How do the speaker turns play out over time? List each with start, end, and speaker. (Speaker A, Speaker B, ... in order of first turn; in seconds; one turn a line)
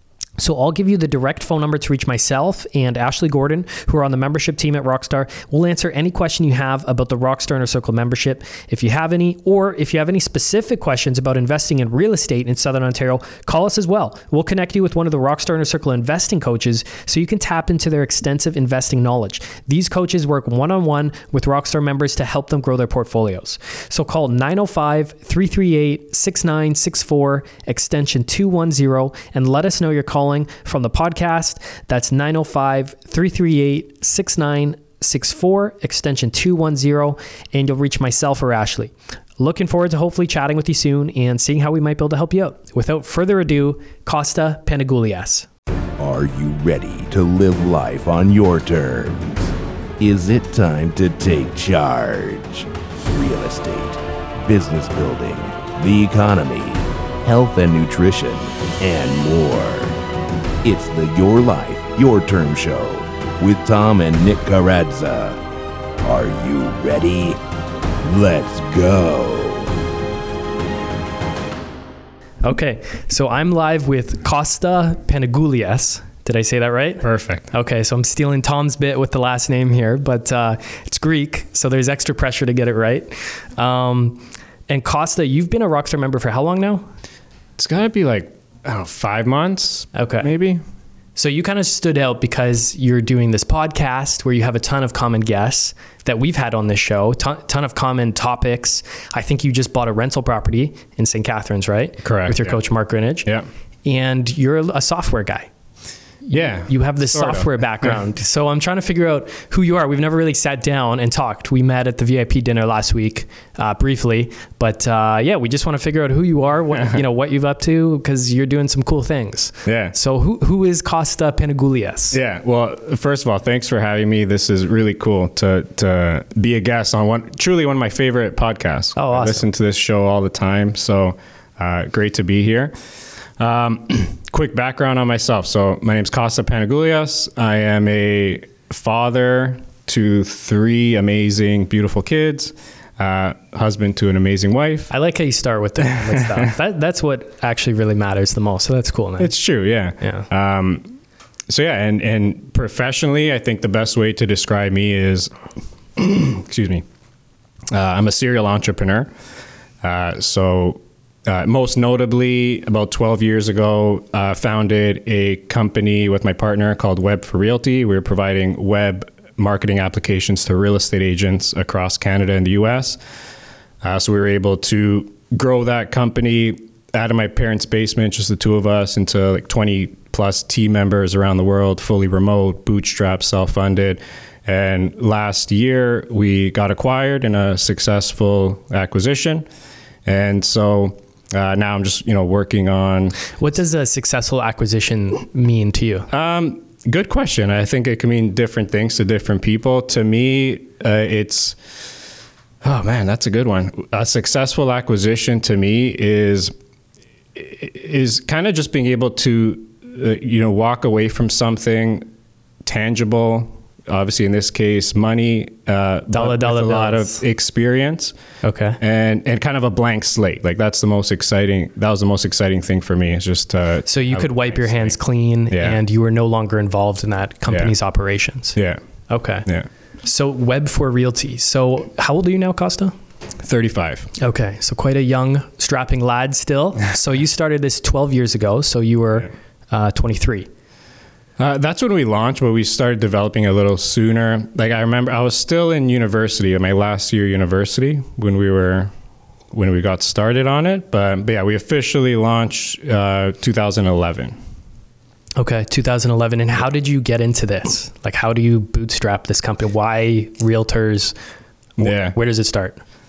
Speaker A: 0.4-45.5
Speaker B: 46.0-60.0
Speaker B: 60.6-65.4
Speaker B: 66.0-67.4
Speaker B: 68.0-69.7
Speaker A: 72.4-86.8
Speaker C: 77.0-77.5
Speaker C: 87.6-90.6
Speaker A: 89.9-90.3
Speaker A: 91.2-103.3
Speaker C: 102.0-102.6
Speaker A: 103.8-105.5
Speaker A: 106.2-122.2
Speaker C: 106.3-108.0
Speaker C: 116.7-117.0
Speaker C: 119.6-119.9
Speaker C: 122.1-132.7
Speaker A: 128.9-129.4
Speaker C: 133.4-144.9
Speaker A: 144.9-149.3
Speaker C: 145.9-146.5
Speaker C: 149.2-150.9
Speaker A: 150.0-150.3
Speaker C: 151.5-155.3
Speaker C: 155.9-156.8
Speaker C: 157.7-159.1
Speaker C: 159.8-173.0
Speaker C: 173.8-189.5
Speaker C: 190.1-193.2
Speaker A: 193.3-196.1
Speaker C: 196.1-201.8
Speaker C: 202.6-206.5
Speaker C: 207.3-212.1
Speaker C: 212.6-218.1
Speaker A: 216.1-217.2
Speaker A: 218.4-218.8
Speaker C: 218.8-224.9
Speaker A: 223.9-228.6
Speaker C: 225.5-225.8
Speaker C: 227.5-227.7
Speaker C: 228.6-228.8
Speaker A: 229.1-229.5
Speaker A: 230.0-232.9
Speaker C: 233.4-234.1
Speaker A: 234.2-240.5
Speaker C: 241.4-248.9
Speaker C: 249.5-254.3
Speaker A: 255.4-261.1
Speaker C: 261.8-262.1
Speaker A: 261.8-262.8